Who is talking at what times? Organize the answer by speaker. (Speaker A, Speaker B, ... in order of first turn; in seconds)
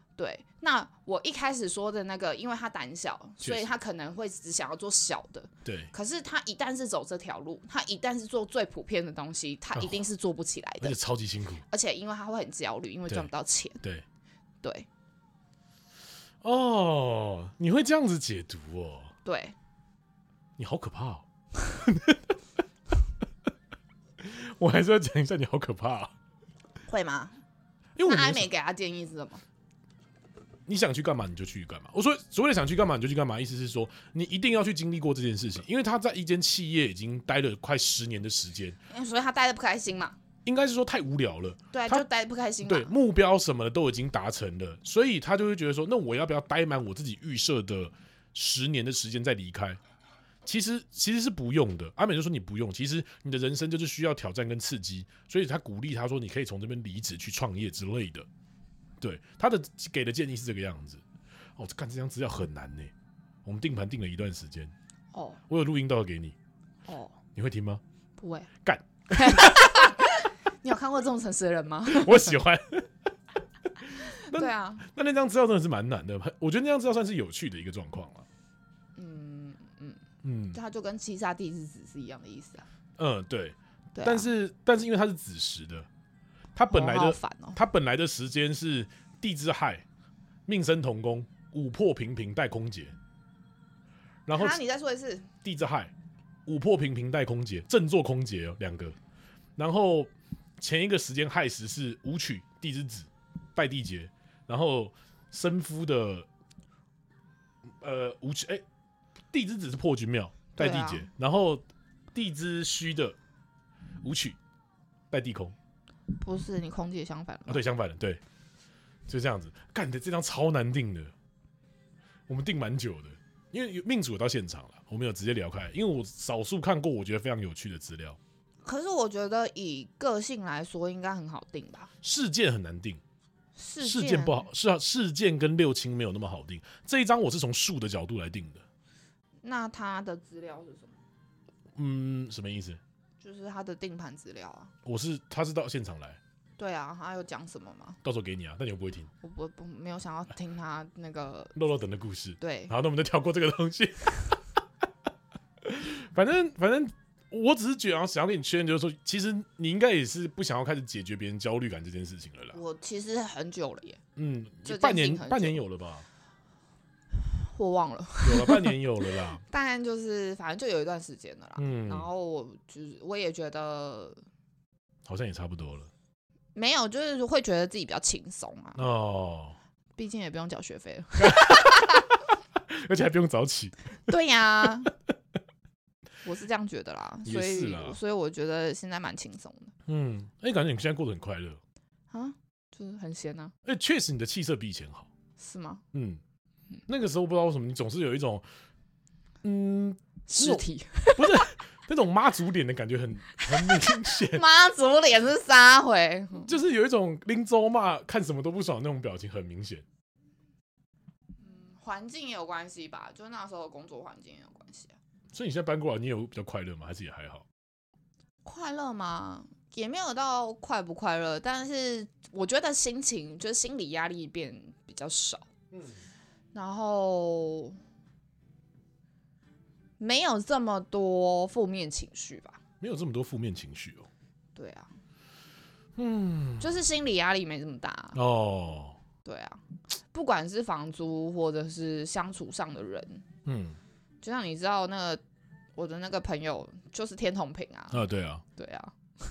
Speaker A: 0.2-11.0, 11.7-13.8, 19.2-19.5, 26.8-27.4, 28.0-29.4, 38.9-40.1, 41.7-42.9, 65.1-65.4, 66.9-67.2, 68.2-68.5, 69.1-72.4, 74.0-74.8, 79.0-80.0, 80.5-82.7, 84.0-84.3, 86.7-87.6, 94.3-95.3, 110.5-111.1, 116.1-117.6, 128.6-131.9, 133.6-134.5, 139.4-141.0, 143.2-144.7, 146.6-148.0, 149.2-151.5, 152.4-152.7, 162.5-164.0, 164.6-165.6, 167.2-168.8, 169.4-174.2, 176.5-178.8, 180.0-181.8, 184.1-184.9, 186.2-189.7, 192.1-193.5, 195.4-195.8, 200.3-201.4, 203.4-206.5, 211.4-214.9, 218.4-225.5, 226.5-227.8, 230.0-232.6, 234.6-234.9, 236.6-238.2, 239.2-243.2, 244.2-245.2, 245.8-248.0, 248.6-248.9
Speaker B: 3.4-3.7, 5.6-5.9, 9.7-10.0, 10.8-11.6, 16.4-19.1, 20.6-21.2, 21.8-22.2, 24.2-26.1, 28.0-28.5, 30.7-38.8, 40.5-42.0, 42.6-49.8, 50.4-58.2, 59.0-61.0, 61.6-62.9, 63.4-64.7, 65.5-66.3, 67.3-67.8, 68.6-69.7, 71.8-72.9, 73.8-78.3, 80.2-80.6, 83.0-85.9, 86.5-89.8, 90.5-93.0, 94.3-94.6, 95.4-95.9, 96.5-99.0, 99.6-106.3, 107.8-108.6, 109.3-113.2, 114.0-114.4, 115.1-115.5, 117.5-118.2, 119.1-121.1, 122.3-128.2, 132.0-133.0, 133.8-138.6, 141.7-142.8, 144.8-146.2, 148.0-149.1, 151.5-154.4, 155.6-162.6, 164.2-166.1, 168.2-169.4, 171.6-172.1, 175.1-175.9, 178.8-179.6, 181.2-183.9, 187.2-188.0, 189.9-191.6, 193.6-195.1, 195.9-196.2, 196.9-198.4, 199.4-200.7, 201.2-204.4, 206.4-209.8, 215.3-217.4, 232.8-234.1, 236.0-236.7, 238.1-239.0, 243.4-243.8, 247.9-248.4